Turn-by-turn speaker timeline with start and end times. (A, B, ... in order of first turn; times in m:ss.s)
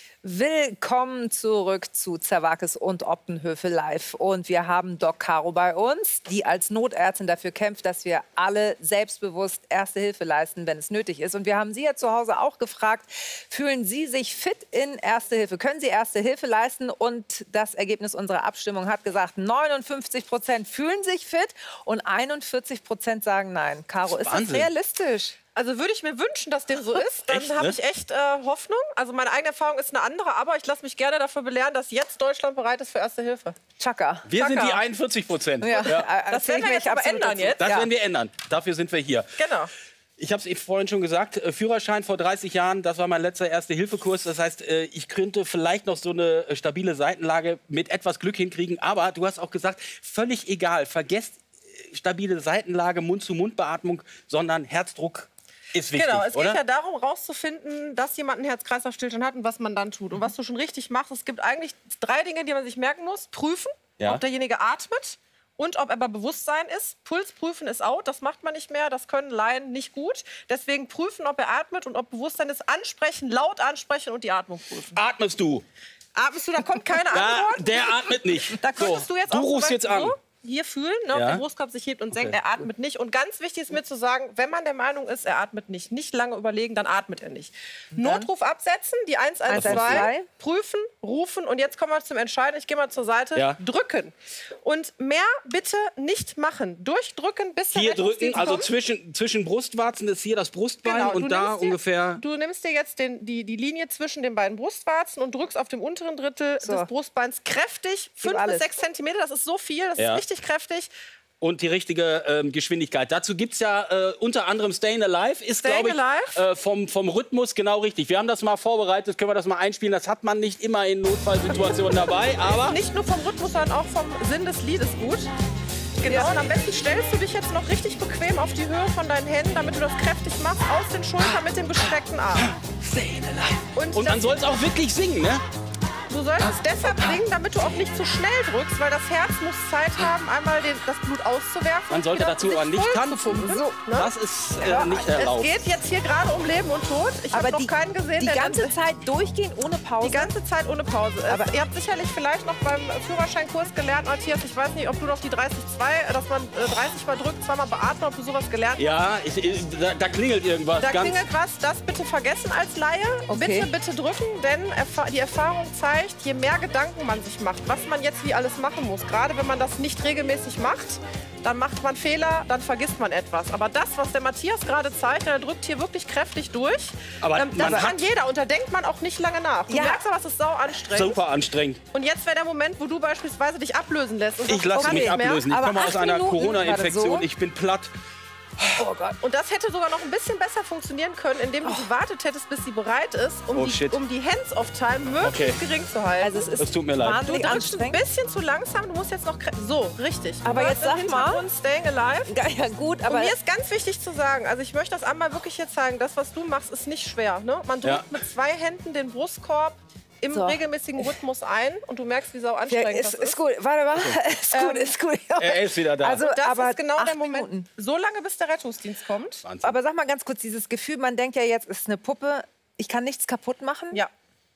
0:00.2-0:25.4 A
0:24.0-0:24.7 B
0:25.5-0:33.6 C
0:27.3-0:27.8 B
0:33.8-0:34.3 A
0:34.2-0:36.1 B
0:34.4-0:34.8 C
0:35.6-0:37.9 A
0:35.8-0:37.7 C
0:37.6-0:39.3 B
0:39.4-0:39.7 C
0:40.2-0:56.6 B
0:55.9-1:15.0 C
1:14.9-1:15.6 B
1:16.1-1:38.7 C
1:17.1-1:20.1 B
1:21.1-1:21.4 B
1:22.1-1:22.4 B
1:27.9-1:28.3 A
1:29.5-1:30.3 A
1:29.5-1:30.1 B
1:37.7-1:42.2 B
1:40.8-1:50.9 C
1:46.6-1:46.9 A
1:48.2-1:48.7 A
1:50.0-1:50.2 B
1:51.4-2:02.8 B
1:55.6-1:56.4 C
2:02.4-2:05.3 C
2:06.0-2:12.5 C
2:12.4-2:15.4 B
2:13.7-2:14.4 C
2:16.1-2:24.1 C
2:21.9-2:25.5 B
2:23.4-2:23.8 A
2:24.6-2:25.0 A
2:24.6-2:28.7 C
2:27.3-2:30.3 A
2:30.0-2:38.8 C
2:31.3-2:31.6 A
2:38.8-2:41.2 B
2:40.8-3:01.2 C
2:43.3-2:43.7 A
2:57.2-2:58.0 B
2:57.6-2:57.9 A
2:59.7-3:00.0 A
3:00.9-3:01.8 B
3:01.9-3:05.5 C
3:04.4-3:07.9 B
3:04.7-3:07.2 A
3:08.8-3:09.2 A
3:09.2-3:16.5 C
3:13.5-3:14.0 B
3:15.2-3:15.6 B
3:16.2-3:18.0 A
3:16.6-3:17.2 B
3:17.2-3:22.3 C
3:20.4-3:21.4 A
3:22.3-3:23.3 A
3:23.1-3:33.4 C
3:30.3-3:31.1 A
3:32.7-3:37.6 A
3:34.5-3:34.9 C
3:35.4-3:36.2 B
3:36.2-3:39.4 C
3:39.4-3:39.8 B
3:39.6-3:44.0 A